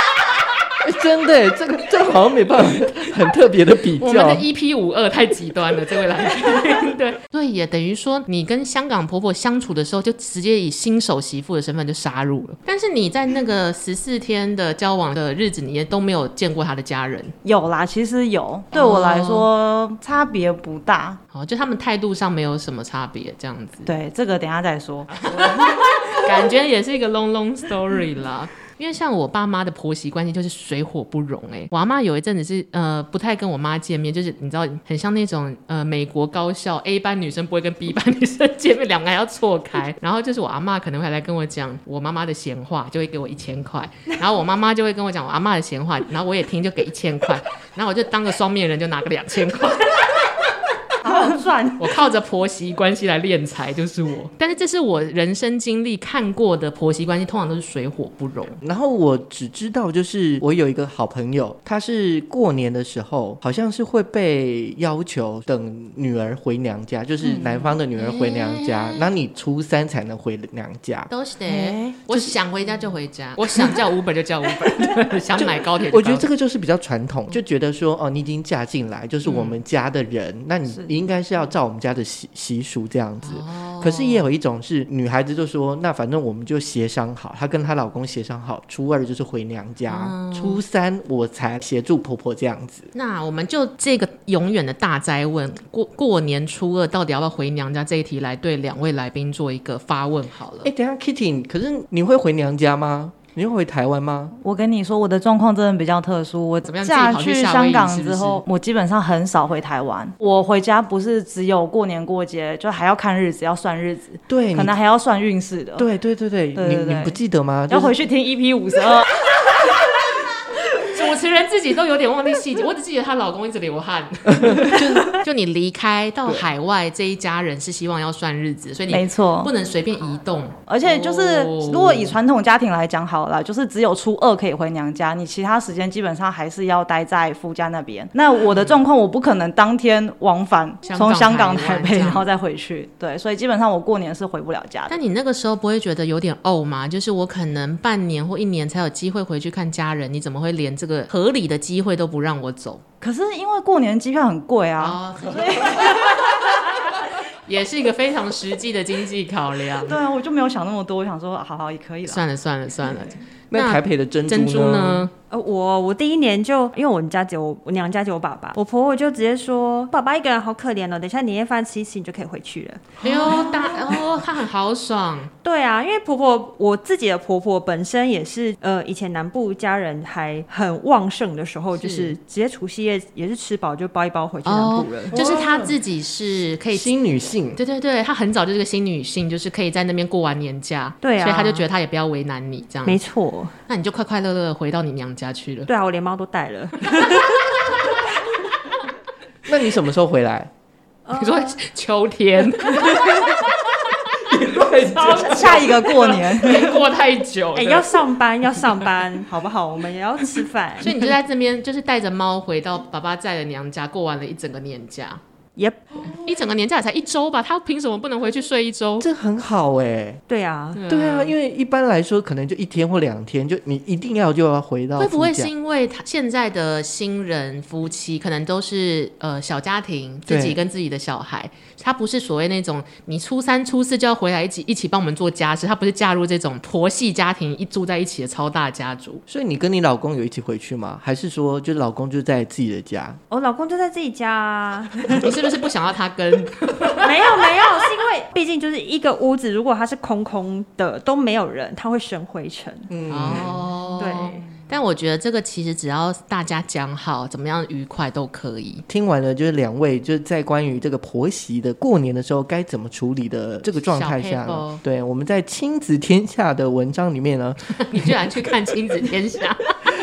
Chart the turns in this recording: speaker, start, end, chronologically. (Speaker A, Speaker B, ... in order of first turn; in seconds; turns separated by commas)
Speaker A: 0.8-4.4, Speaker B: 4.0-17.3, Speaker C: 17.4-21.2, Speaker B: 18.7-19.5, Speaker B: 21.3-23.9, Speaker C: 23.8-26.2, Speaker B: 25.1-50.3, Speaker C: 51.0-52.0, Speaker B: 51.8-58.6, Speaker A: 58.6-72.3, Speaker B: 68.0-69.0, Speaker B: 71.1-76.3, Speaker A: 75.4-92.9, Speaker B: 79.2-79.6, Speaker B: 83.2-84.2, Speaker B: 89.9-90.6, Speaker B: 92.9-100.7, Speaker A: 100.6-104.3, Speaker C: 104.4-115.9, Speaker B: 106.6-108.4, Speaker A: 114.3-114.7, Speaker A: 115.8-117.9, Speaker C: 116.5-117.2, Speaker C: 117.7-119.2, Speaker B: 120.8-132.2, Speaker A: 124.3-125.2, Speaker C: 128.9-129.5, Speaker C: 130.7-144.9, Speaker B: 138.5-138.8, Speaker B: 140.8-142.3, Speaker B: 144.9-152.8, Speaker C: 153.0-156.6, Speaker B: 154.8-160.0, Speaker C: 159.8-162.2, Speaker B: 162.1-165.1, Speaker A: 163.5-165.1, Speaker D: 165.3-173.4, Speaker B: 173.0-175.3, Speaker A: 173.0-173.6, Speaker D: 175.4-185.1, Speaker B: 181.8-182.1, Speaker B: 184.4-186.9, Speaker A: 185.1-185.8, Speaker A: 186.7-187.6, Speaker B: 187.5-193.0, Speaker D: 191.0-191.7, Speaker D: 192.8-193.5, Speaker B: 193.7-195.7, Speaker D: 195.7-198.2, Speaker A: 199.4-200.5, Speaker D: 201.1-201.6, Speaker B: 201.1-204.3, Speaker D: 202.7-203.1, Speaker A: 204.2-205.7, Speaker B: 204.8-207.9, Speaker C: 205.0-206.8, Speaker D: 207.5-210.9, Speaker B: 210.8-215.2, Speaker D: 215.6-216.0, Speaker B: 216.1-219.1, Speaker A: 219.0-220.2, Speaker D: 220.3-220.8, Speaker B: 220.7-221.3, Speaker A: 220.9-225.5, Speaker B: 225.0-239.2, Speaker A: 230.3-230.6, Speaker A: 239.3-243.2, Speaker D: 243.3-245.3, Speaker B: 245.1-247.3, Speaker D: 247.0-252.9, Speaker A: 252.9-253.6, Speaker B: 253.1-258.8, Speaker D: 254.0-254.4, Speaker A: 258.9-268.1, Speaker B: 263.8-264.8, Speaker B: 267.8-269.8